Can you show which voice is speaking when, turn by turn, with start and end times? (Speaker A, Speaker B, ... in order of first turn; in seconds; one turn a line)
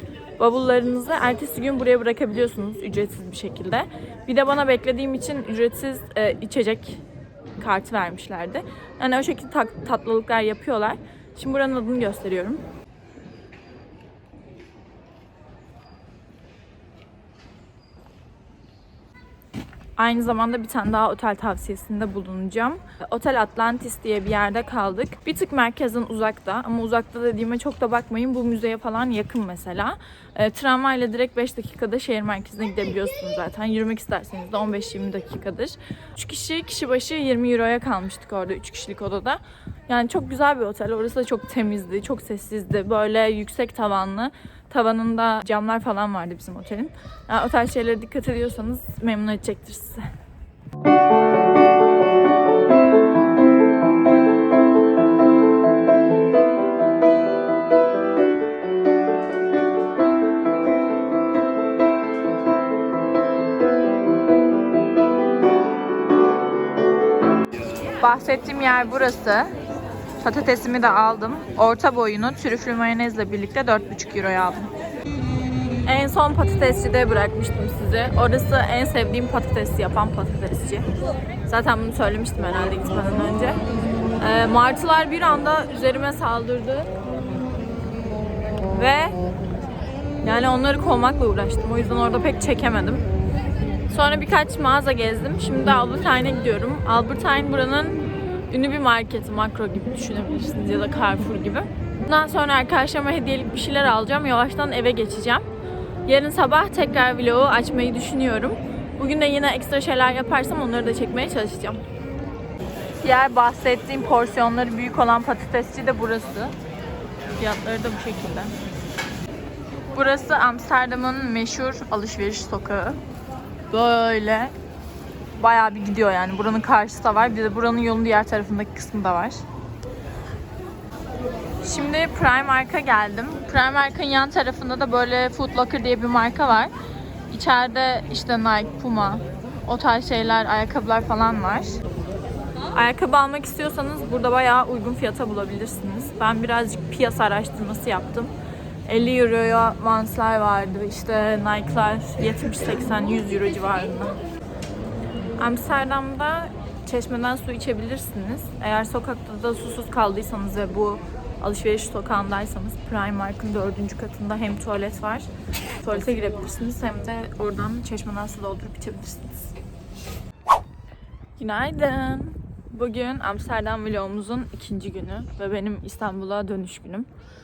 Speaker A: 0.4-7.0
Speaker A: 7.6-12.6
Speaker A: 20.0-50.1
Speaker A: 68.0-69.5
Speaker A: 70.2-74.7
Speaker A: 75.9-80.9
Speaker A: 81.5-83.6
Speaker A: 84.2-86.9
Speaker A: 88.7-89.2
Speaker A: 90.2-93.0
Speaker A: 93.9-105.5
Speaker A: 106.1-111.8
Speaker A: 113.0-116.5
Speaker A: 117.4-118.6
Speaker A: 119.9-123.0
Speaker A: 123.7-124.5
Speaker A: 125.3-129.4
Speaker A: 131.6-136.7
Speaker A: 137.3-141.8
Speaker A: 142.7-148.3
Speaker A: 148.9-154.2
Speaker A: 155.4-165.3
Speaker A: 165.8-169.5
Speaker A: 171.4-177.1